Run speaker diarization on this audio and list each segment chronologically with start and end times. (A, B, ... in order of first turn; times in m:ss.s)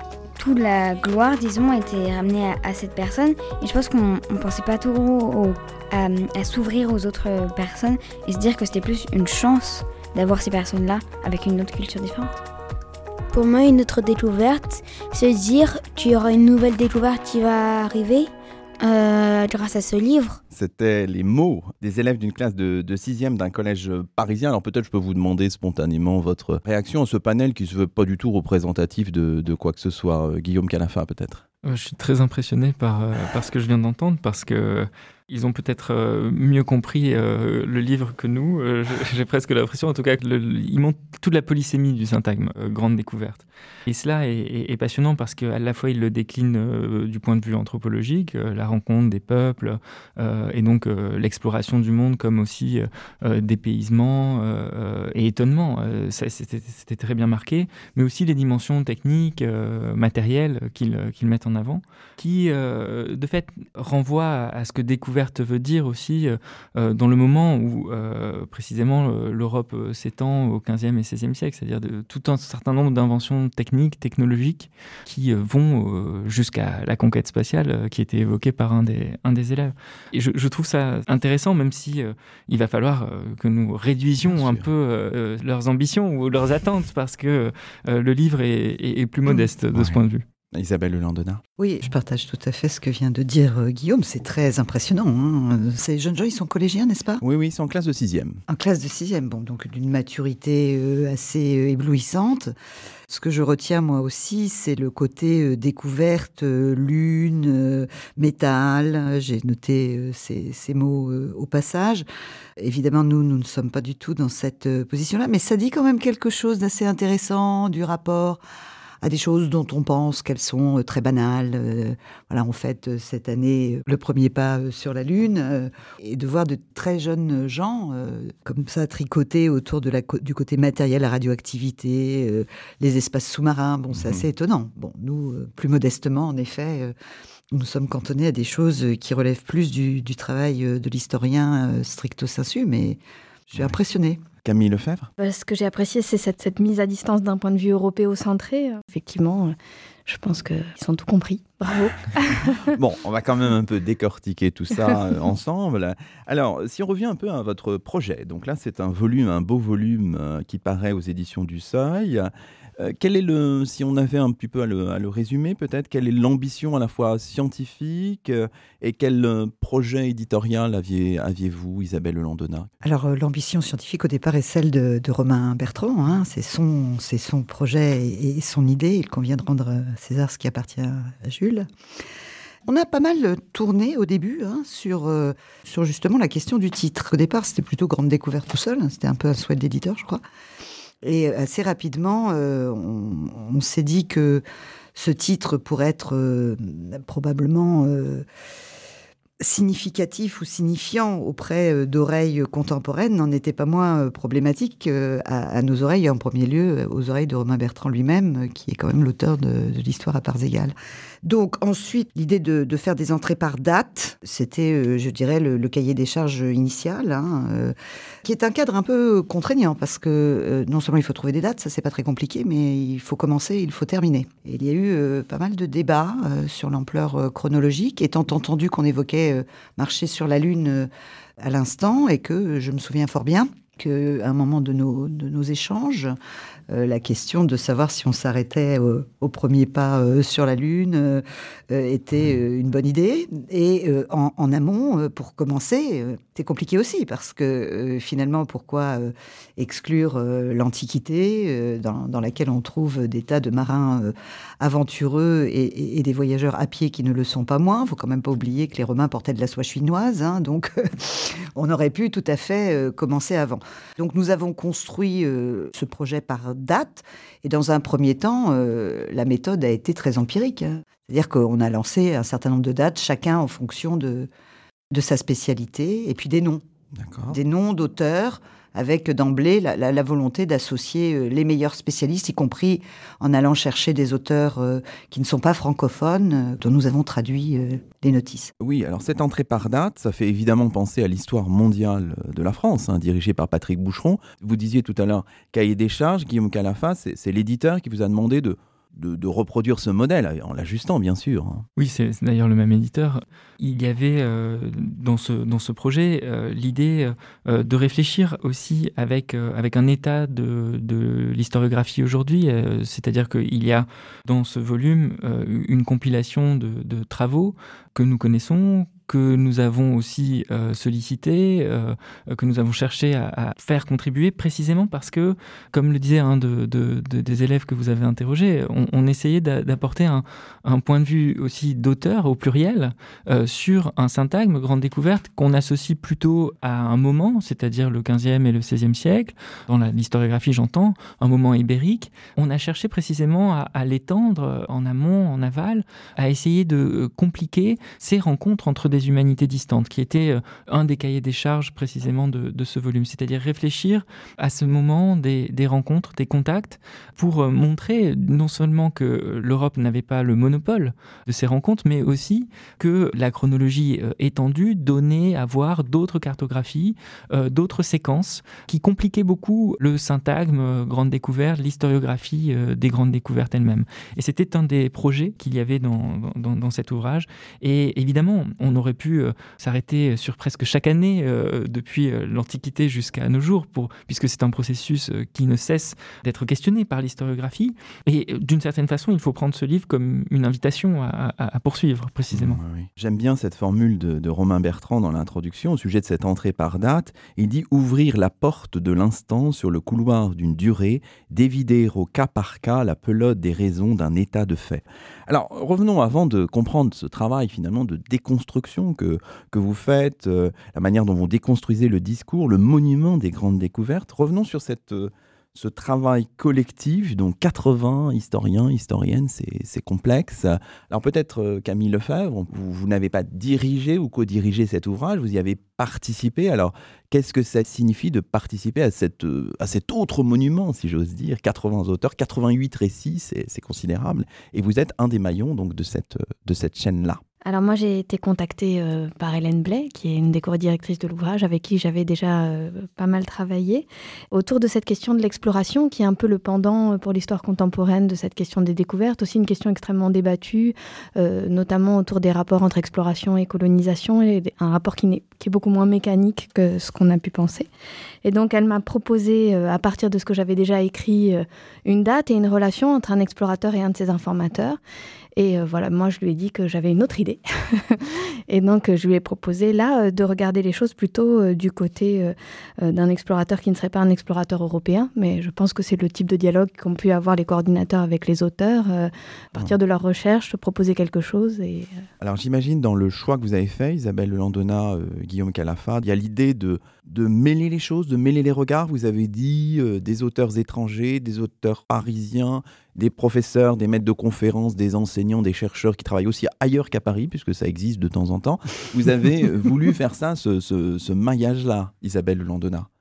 0:00.4-0:12.4 A
0:13.3-0:18.3 B
0:18.8-0:20.4 B
0:20.5-0:31.4 C
0:31.6-1:30.2 D
1:24.2-1:24.7 C
1:30.5-1:31.4 C
1:31.6-1:37.2 E
1:37.2-1:38.4 C
1:38.5-1:42.5 E
1:43.1-1:52.0 E
1:52.6-1:58.4 E
1:59.0-2:16.9 E
2:13.9-2:14.2 C
2:17.5-2:23.0 E
2:23.5-2:24.2 E
2:24.4-2:25.1 C
2:25.2-2:32.6 F
2:32.7-2:52.7 C
2:52.8-3:01.7 E
3:02.7-3:10.2 E
3:11.0-3:14.4 E
3:15.0-3:18.2 E
3:19.4-3:56.2 E
3:56.7-4:34.3 E
4:34.9-4:36.6 E
4:37.0-4:37.4 C
4:37.3-4:48.5 E
4:48.6-5:01.7 C
5:01.8-6:32.6 D
6:32.3-7:17.2 C
7:17.4-7:37.7 F
7:38.2-7:44.8 F
7:45.4-8:02.0 F
8:02.2-8:22.9 C